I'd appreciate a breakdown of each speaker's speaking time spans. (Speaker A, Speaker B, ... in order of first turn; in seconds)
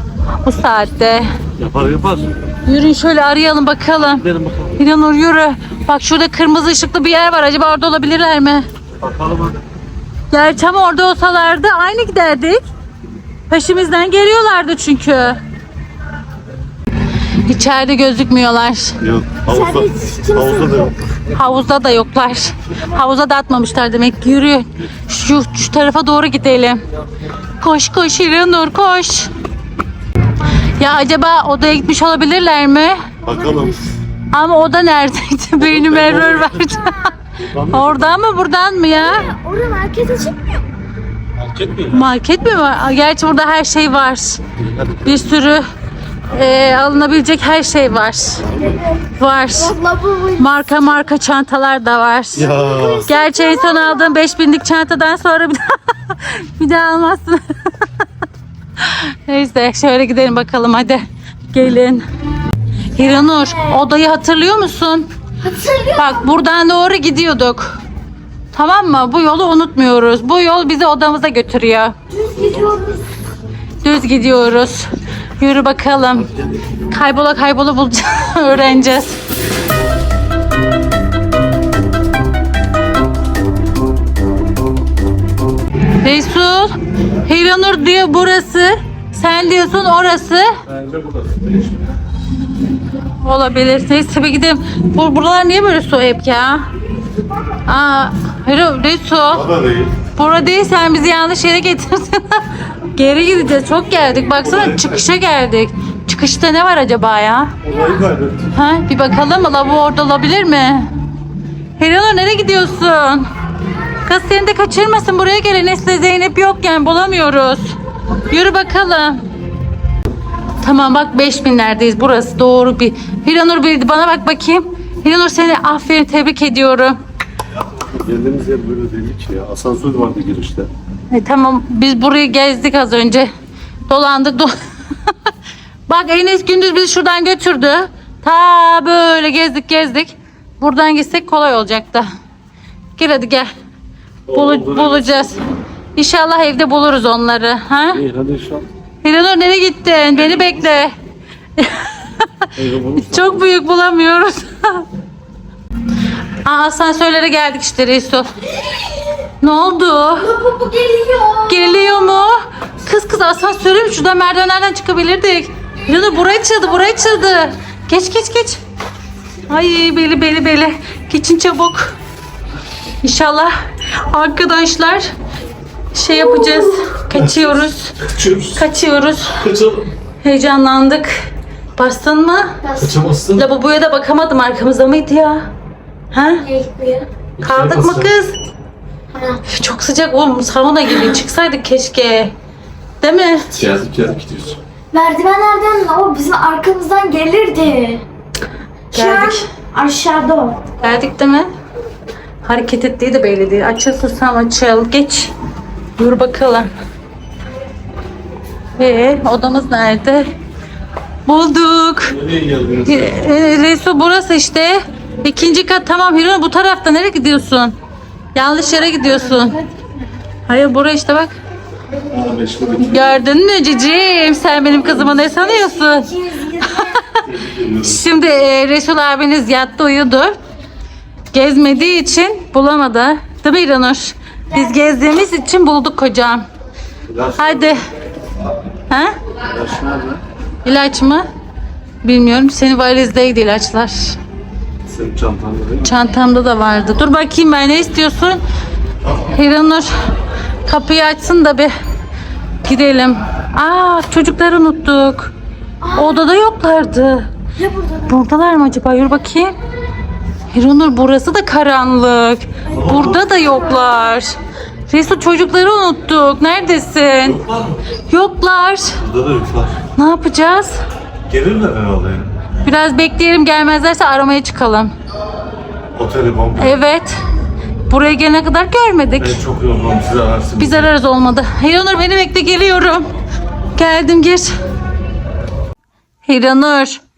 Speaker A: 0.4-1.3, 2.6-4.2, 4.8-8.6, 10.3-12.6, 13.5-15.4, 17.4-18.9, 21.3-26.8, 27.6-29.3, 30.8-33.0, 34.3-37.1, 37.7-39.3, 41.9-44.4, 45.0-45.6, 46.3-48.4, 49.2-49.7, 50.4-52.5, 53.0-57.9, 58.8-62.0, 62.9-65.1, 65.9-67.8, 68.5-71.9, 73.8-76.3, 76.9-79.2, 86.0-86.7, 87.2-90.5, 93.2-96.7, 97.7-99.5, 100.1-107.5, 108.5-110.9, 111.8-113.2, 114.0-117.7, 118.3-119.2, 120.6-127.0, 131.1-133.3, 133.9-134.5, 135.9-142.1, 142.9-143.5, 144.3-145.4, 145.9-148.0, 149.0-150.9, 151.6-154.9, 156.4-158.3, 159.4-160.3, 161.5-168.6, 169.5-171.9, 173.0-175.1, 175.9-177.9, 178.5-179.4, 180.2-181.2, 181.8-182.6, 183.3-185.5, 186.1-186.4, 187.4-188.4, 189.5-192.3, 193.0-193.5, 198.9-199.4, 200.8-201.5, 202.4-205.3, 206.0-206.7, 208.8-210.3, 211.2-212.2, 212.8-217.7, 218.3-219.6, 220.5-221.3, 222.9-226.8, 227.8-230.3, 231.3-236.5, 237.4-237.8, 238.9-239.1, 240.6-241.2, 242.0-244.2, 245.8-248.4, 249.1-249.9, 250.7-251.7, 252.6-255.3, 255.9-257.3, 258.1-259.5, 260.5-264.3, 264.9-267.4, 268.1-269.0, 269.9-270.8, 272.6-274.9, 276.6-277.2, 277.9-279.4, 280.6-283.1, 283.7-284.5, 286.2-287.0
Speaker B: 1.6-2.3, 4.0-4.8, 9.0-9.6, 19.0-20.9, 33.2-33.8, 35.6-36.7, 37.4-38.1, 41.4-42.1, 44.6-45.3, 48.4-48.8, 52.4-53.1, 90.7-91.8, 99.3-100.0, 104.2-105.0, 107.6-108.5, 127.6-130.7, 144.3-145.4, 147.9-148.7, 152.6-153.4, 178.1-178.6, 179.4-179.9, 182.8-183.4, 187.4-188.1, 193.5-194.6, 212.1-213.1, 222.1-223.2, 224.7-225.3, 227.2-228.0, 237.1-237.8, 239.5-240.2, 244.9-245.9, 262.7-263.2, 267.2-267.8, 269.0-269.8, 271.3-272.3, 275.9-276.8, 279.2-280.9
Speaker C: 19.4-20.9, 38.9-40.7, 48.5-50.5, 52.5-54.1, 63.2-63.8, 65.4-66.2, 72.1-73.0, 107.7-108.0, 160.2-161.9, 176.5-176.8, 182.6-183.0, 186.4-187.1, 189.1-189.4, 194.9-198.0, 198.9-200.7, 225.3-227.0, 255.8-256.2, 257.6-258.2